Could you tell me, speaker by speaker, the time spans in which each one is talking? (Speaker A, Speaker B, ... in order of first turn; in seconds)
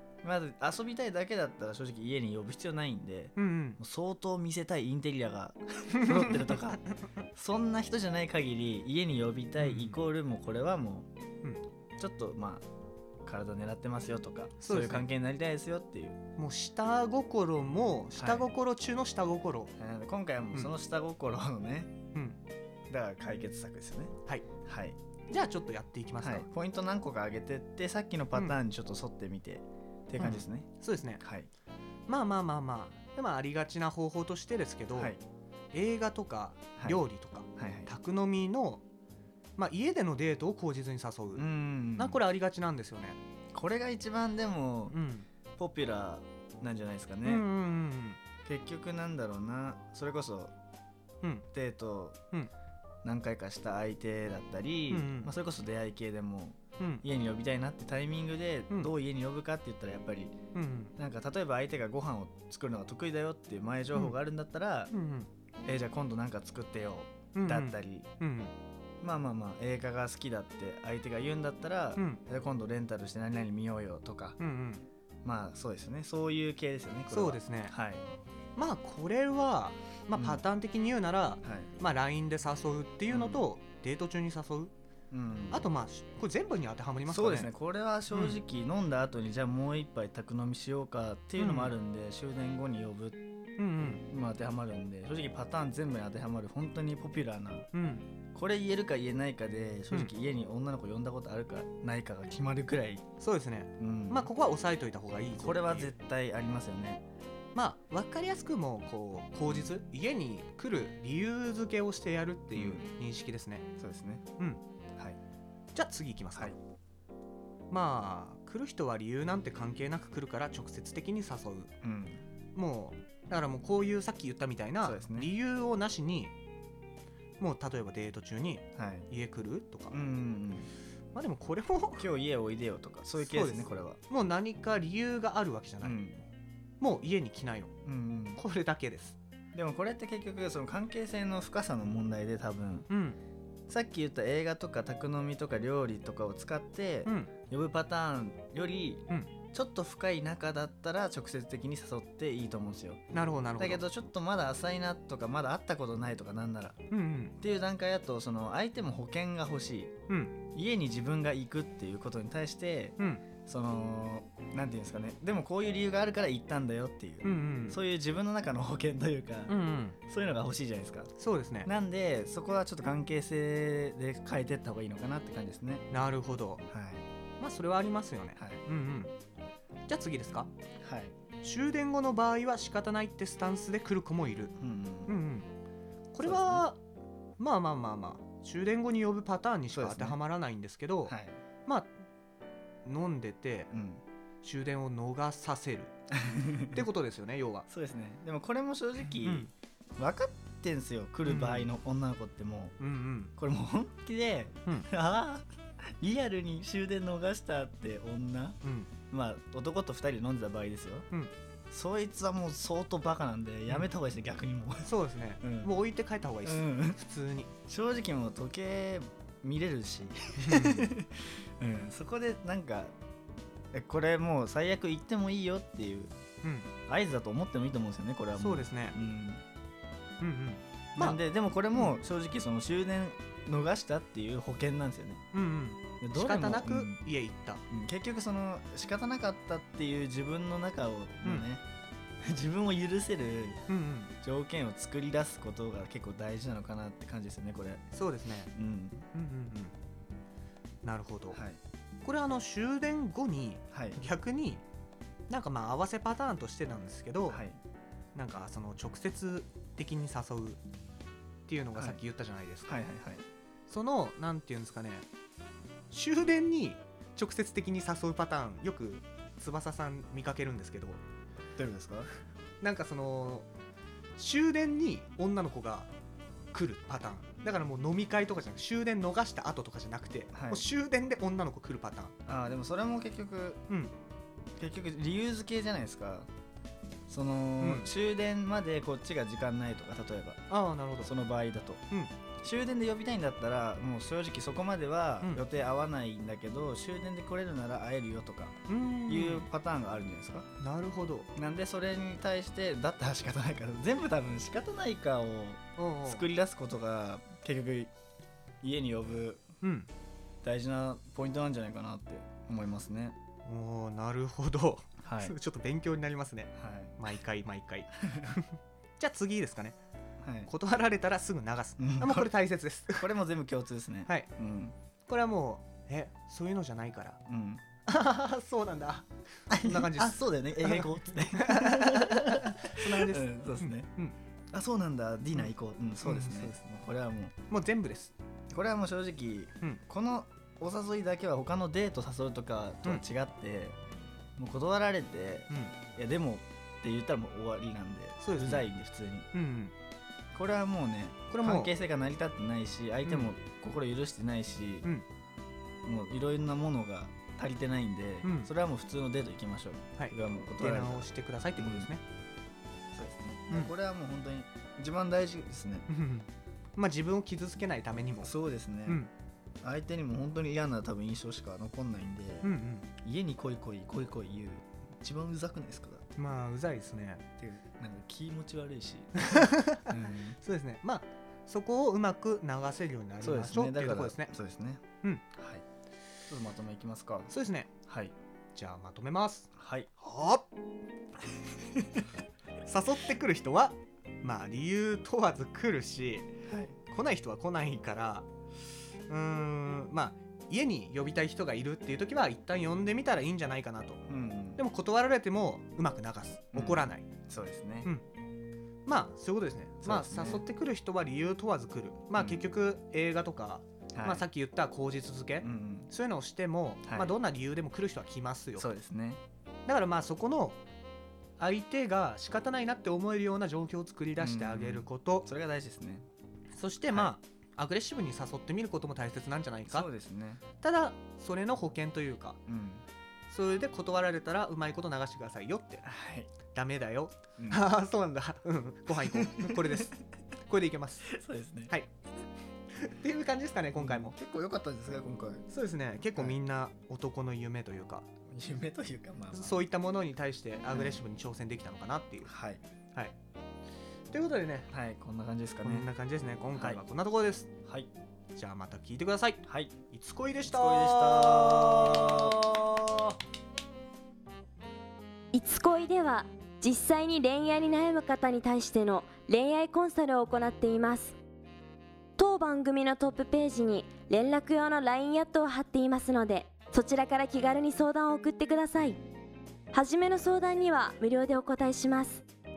Speaker A: 0.2-6.8, 7.3-11.1, 12.0-12.7, 13.2-16.2, 18.1-18.5, 19.8-21.9, 22.9-24.1, 24.6-25.0, 26.2-31.5, 34.9-35.2, 36.8-37.0, 37.5-37.9, 41.3-42.2, 43.5-45.0, 45.5-47.5, 48.4-50.5, 51.5-52.2, 53.0-60.4, 61.0-64.9, 65.6-68.1, 69.0-74.4, 75.2-78.0, 80.1-80.4, 81.4-81.7, 83.1-83.4, 85.1-85.7, 87.1-93.2, 94.1-97.7, 98.3-103.0, 103.8-104.3, 105.3-107.0, 109.4-109.7, 112.5-112.9, 113.8-114.2, 121.8-122.2, 124.8-125.3, 128.7-129.1, 129.9-130.7, 132.0-134.0, 135.8-136.2, 137.8-138.4, 139.5-142.9, 143.7-153.0, 153.6-156.8, 157.4-159.9, 160.5-171.1, 171.6-175.9, 176.7-177.0, 178.3-178.6, 180.8-181.1, 184.6-185.2, 186.2-186.7, 189.7-190.2, 191.0-191.4, 193.7-194.0, 196.1-196.8, 197.7-202.8, 203.4-205.4, 206.0-208.6, 209.1-211.1, 211.7-215.7, 216.4-217.0, 217.7-222.9, 223.7-226.1, 226.9-229.4, 230.9-235.2, 236.0-237.1, 237.7-241.6, 242.2-243.6, 244.2-247.8, 248.5-249.1, 251.3-251.6, 253.7-254.0, 257.3-257.6, 261.8-262.0, 262.6-263.2, 271.6-272.1, 280.3-280.7, 282.2-283.6, 284.6-286.3, 287.1-290.4, 291.0-291.8, 292.4-300.5, 301.4-307.9, 308.6-309.4, 310.4-313.2, 315.0-315.4, 316.6-317.0, 318.0-318.4, 320.2-320.5, 321.8-322.3, 322.9-324.7, 327.2-327.6, 329.5-333.9, 334.5-337.3, 338.5-343.8, 344.4-349.3, 350.3-354.9, 355.8-361.9, 362.9-365.9, 368.2-369.0, 369.6-376.1, 377.4-380.4, 383.2-384.8, 385.4-385.6, 386.3-387.3, 387.9-388.1, 389.6-389.9, 391.4-392.1, 396.5-396.7, 404.1-404.6, 406.5-407.9, 409.8-410.4, 412.1-412.5, 413.9-414.2, 415.4-415.9, 416.8-417.1, 418.6-419.2, 424.2-426.0, 426.9-427.1, 429.7-430.4, 432.5-432.8, 435.8-436.3, 437.4-437.7, 438.9-439.9, 441.1-441.7, 443.8-445.5, 448.3-449.7, 450.7-451.0, 452.2-452.6, 454.7-455.9, 456.5-456.8, 457.6-457.9, 459.4-459.7, 460.5-462.5
Speaker B: 3.4-3.8, 6.0-6.7, 9.6-10.0, 14.6-15.1, 16.4-19.7, 25.3-26.5, 30.2-31.2, 32.1-35.1, 35.7-38.8, 39.6-41.4, 42.0-43.2, 44.9-45.3, 47.2-48.2, 54.9-55.3, 56.8-57.0, 60.5-60.9, 64.9-65.3, 67.3-68.5, 72.0-72.2, 74.4-74.9, 77.1-77.7, 78.5-84.7, 85.5-87.5, 88.1-88.4, 91.4-91.8, 93.6-94.0, 97.7-98.1, 103.2-105.9, 107.5-113.6, 115.7-116.6, 117.7-121.7, 122.5-126.3, 127.4-130.0, 131.1-132.1, 133.2-136.0, 136.8-137.7, 138.3-139.2, 142.9-143.2, 147.0-147.3, 153.1-153.8, 156.9-157.3, 160.1-160.4, 163.0-163.2, 167.2-167.8, 169.5-170.0, 171.2-171.7, 175.9-176.6, 177.4-179.1, 179.9-180.5, 181.4-184.5, 185.1-185.5, 186.1-186.8, 187.4-191.9, 192.8-193.7, 194.4-195.9, 196.6-197.7, 199.2-199.5, 201.2-201.7, 202.8-203.3, 208.6-208.9, 214.8-217.5, 220.4-220.9, 226.4-226.7, 228.3-228.9, 230.2-231.2, 235.3-237.6, 241.2-241.5, 243.7-244.1, 247.9-248.5, 249.1-249.7, 250.8-251.4, 252.0-254.6, 255.3-257.4, 258.1-260.6, 261.5-262.8, 263.7-265.1, 265.9-271.0, 272.6-273.5, 274.2-275.9, 276.5-282.1, 283.7-283.9, 287.6-287.9, 290.5-291.1, 298.7-299.5, 300.6-301.3, 305.8-306.2, 309.6-309.9, 313.4-319.8, 320.5-323.1, 325.1-327.2, 327.9-334.2, 335.3-336.6, 337.5-338.1, 345.5-345.8, 348.2-348.7, 349.3-349.7, 351.3-351.7, 353.0-353.3, 358.2-358.5, 360.0-362.0, 365.9-368.3, 368.8-369.1, 372.4-372.9, 376.1-377.2, 379.2-384.3, 387.3-387.7, 388.5-390.5, 392.6-398.3, 399.1-404.0, 404.6-407.1, 408.9-418.7, 419.6-420.6, 421.4-425.3, 426.5-429.9, 430.6-432.4, 433.3-435.8, 436.5-441.1, 442.7-444.1, 445.5-448.1, 449.3-452.3, 454.1-454.7, 455.6-457.5, 458.3-462.7
Speaker C: 465.3-471.1, 472.2-479.0, 479.7-482.2